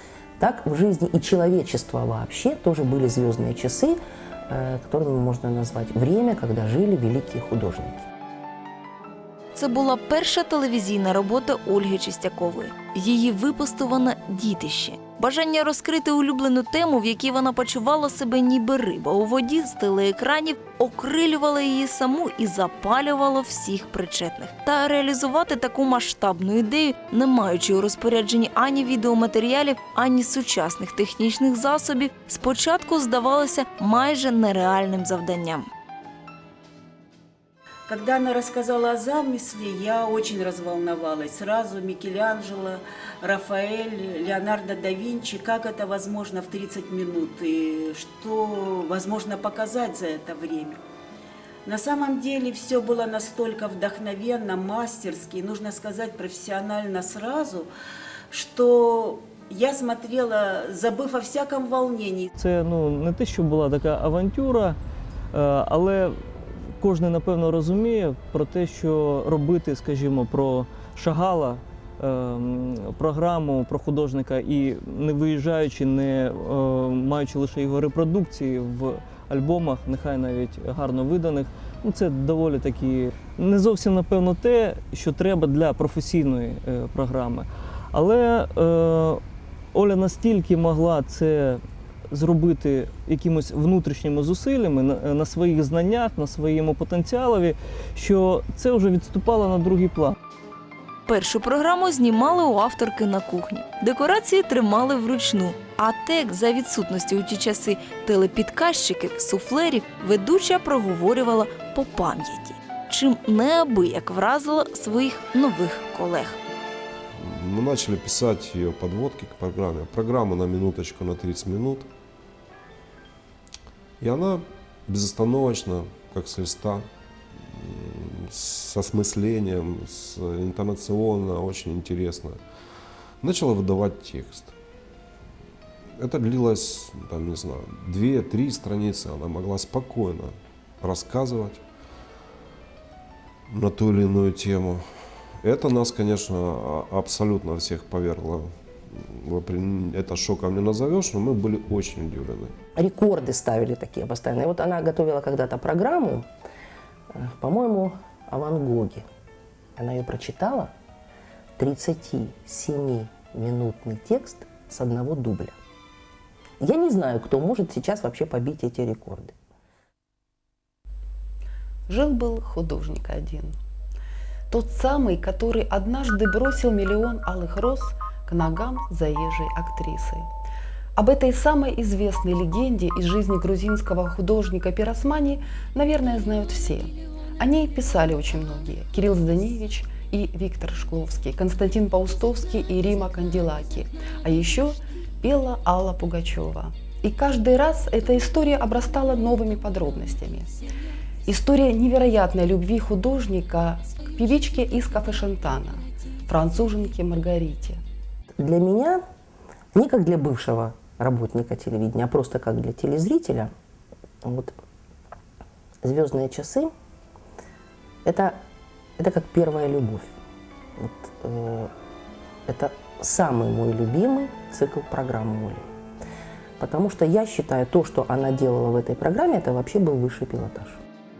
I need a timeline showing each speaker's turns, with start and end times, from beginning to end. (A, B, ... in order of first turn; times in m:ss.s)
0:00.4-0:08.1 A
0:09.6-0:35.7 B
0:37.9-0:50.8 C
0:51.6-0:57.7 C
0:58.3-1:02.3 C
1:02.4-1:04.8 D
1:05.3-1:40.2 D
1:41.1-1:56.4 B
1:57.2-2:01.9 E
2:04.0-2:12.4 E
2:13.2-2:14.6 E
2:16.0-2:21.6 E
2:23.5-2:24.8 E
2:25.4-2:32.5 E
2:32.8-2:36.3 A
2:37.1-2:39.0 A
2:39.8-2:40.7 A
2:41.6-2:45.6 A
2:46.6-2:49.3 A
2:51.9-2:53.5 F
2:54.5-3:00.3 F
3:01.0-3:20.5 F
3:21.3-3:27.8 F
3:28.4-3:29.0 A
3:29.7-3:33.5 A
3:34.2-3:34.6 A
3:35.8-3:36.7 A
3:38.0-3:38.4 A
3:39.0-3:40.1 A
3:40.8-3:41.7 A
3:42.5-3:45.7 A
3:46.6-3:50.8 A